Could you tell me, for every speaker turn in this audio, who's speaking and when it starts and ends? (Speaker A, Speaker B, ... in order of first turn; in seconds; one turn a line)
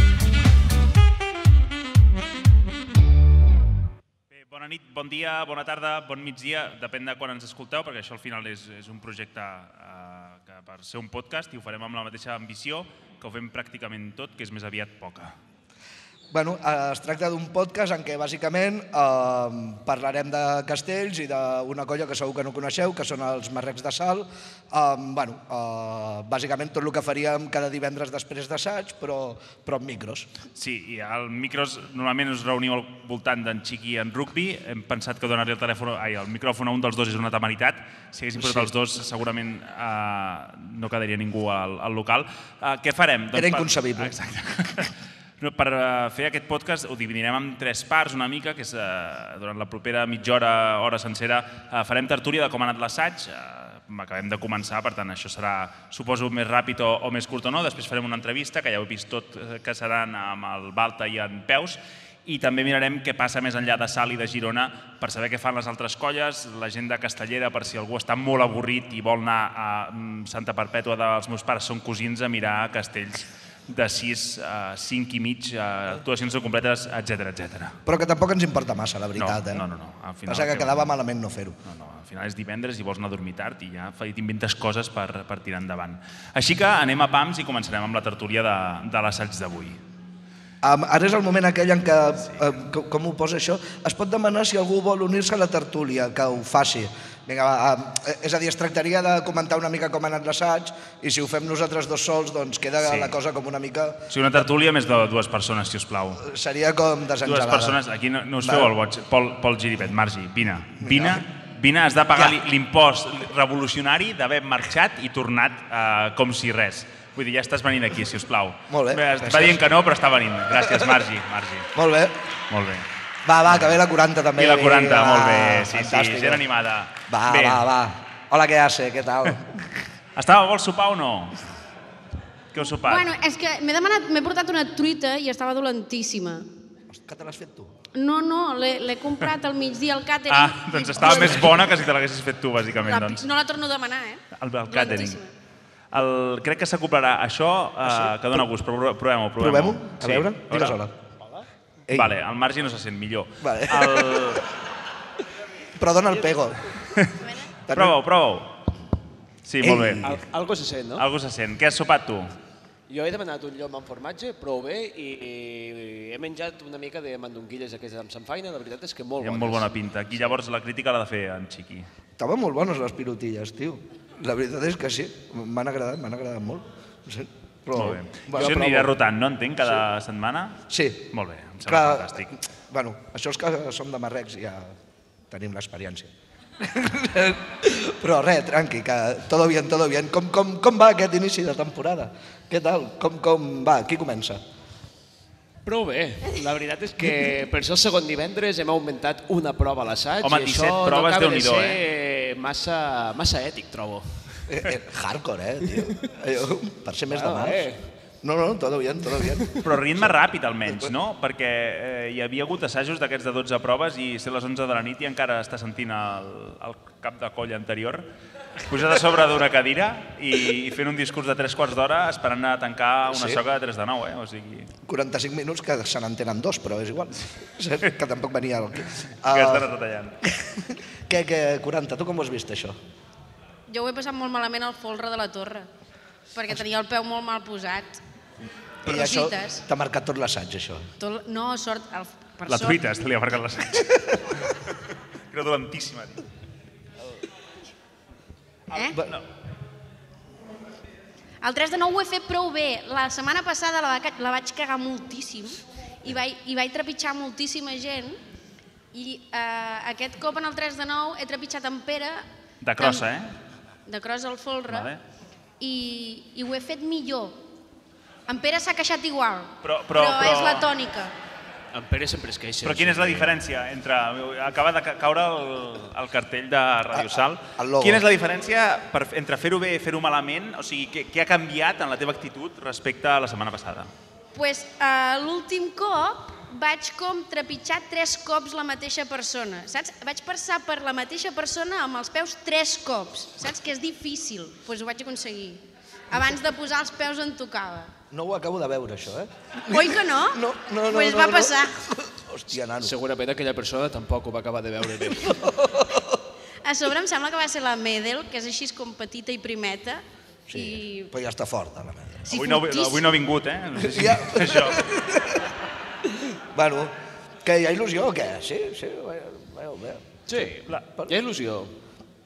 Speaker A: 4.3-15.3
Speaker B: 16.3-30.3
Speaker A: 30.6-77.8
Speaker B: 38.4-38.7
Speaker B: 43.3-44.2
Speaker B: 77.9-79.7
Speaker A: 79.2-80.9
Speaker B: 80.3-81.6
Speaker A: 81.7-89.8
Speaker B: 90.6-104.1
Speaker A: 102.8-103.1
Speaker A: 104.1-106.3
Speaker B: 106.2-107.8
Speaker A: 107.2-121.7
Speaker B: 108.4-108.7
Speaker B: 110.8-111.3
Speaker B: 112.1-112.4
Speaker B: 118.7-119.6
Speaker B: 120.6-121.0
Speaker B: 121.8-122.2
Speaker A: 122.5-122.9
Speaker B: 123.2-126.4
Speaker A: 123.5-123.8
Speaker A: 124.4-127.7
Speaker B: 127.1-129.7
Speaker A: 130.2-131.4
Speaker A: 132.5-133.1
Speaker C: 132.9-136.5
Speaker B: 136.9-137.7
Speaker C: 137.9-141.8
Speaker A: 140.3-143.3
Speaker C: 142.8-145.3
Speaker A: 144.4-145.2
Speaker A: 145.9-150.8
Speaker B: 147.8-148.5
Speaker B: 149.4-150.9
Speaker B: 151.9-152.2
Speaker A: 151.9-154.5
Speaker B: 153.4-154.4
Speaker B: 155.8-156.6
Speaker C: 157.2-157.5
Speaker B: 157.7-158.0
Speaker A: 157.7-158.6
Speaker A: 159.4-160.2
Speaker B: 159.6-160.2
Speaker D: 160.0-161.1
Speaker A: 161.0-162.3
Speaker D: 162.9-170.4
Speaker A: 169.2-171.9
Speaker B: 172.2-178.9
Speaker A: 177.7-182.3
Speaker B: 180.7-181.1
Speaker B: 181.7-184.8
Speaker B: 185.3-194.4
Speaker D: 195.7-204.4
Speaker A: 200.2-201.8
Speaker B: 204.5-207.7
Speaker D: 207.1-207.8
Speaker B: 208.2-209.5
Speaker A: 209.6-218.1
Speaker A: 218.7-224.7
Speaker B: 223.1-223.4
Speaker B: 224.8-229.7
Speaker A: 229.3-230.2
Speaker B: 230.3-232.8
Speaker C: 233.7-235.7
Speaker C: 236.3-238.0
Speaker C: 238.8-239.6
Speaker B: 238.8-240.9
Speaker C: 241.0-242.8
Speaker A: 242.5-244.7
Speaker A: 245.3-246.2
Speaker C: 248.7-249.0
Speaker B: 248.7-249.2
Speaker C: 251.4-258.2
Speaker C: 258.9-262.3
Speaker A: 262.6-263.3
Speaker C: 262.8-263.1
Speaker C: 263.9-264.9
Speaker A: 264.7-265.0
Speaker C: 265.6-267.4
Speaker C: 268.3-271.1
Speaker A: 269.6-270.7
Speaker D: 271.7-273.4
Speaker A: 272.6-283.9
Speaker B: 276.9-278.0
Speaker C: 284.4-297.9
Speaker B: 298.1-302.9
Speaker C: 299.7-301.8
Speaker D: 302.8-305.4
Speaker B: 305.2-306.2
Speaker C: 306.6-311.1
Speaker B: 310.5-312.3
Speaker C: 312.3-313.1
Speaker A: 312.3-314.9
Speaker B: 313.8-315.5
Speaker B: 316.1-321.1
Speaker D: 320.3-321.7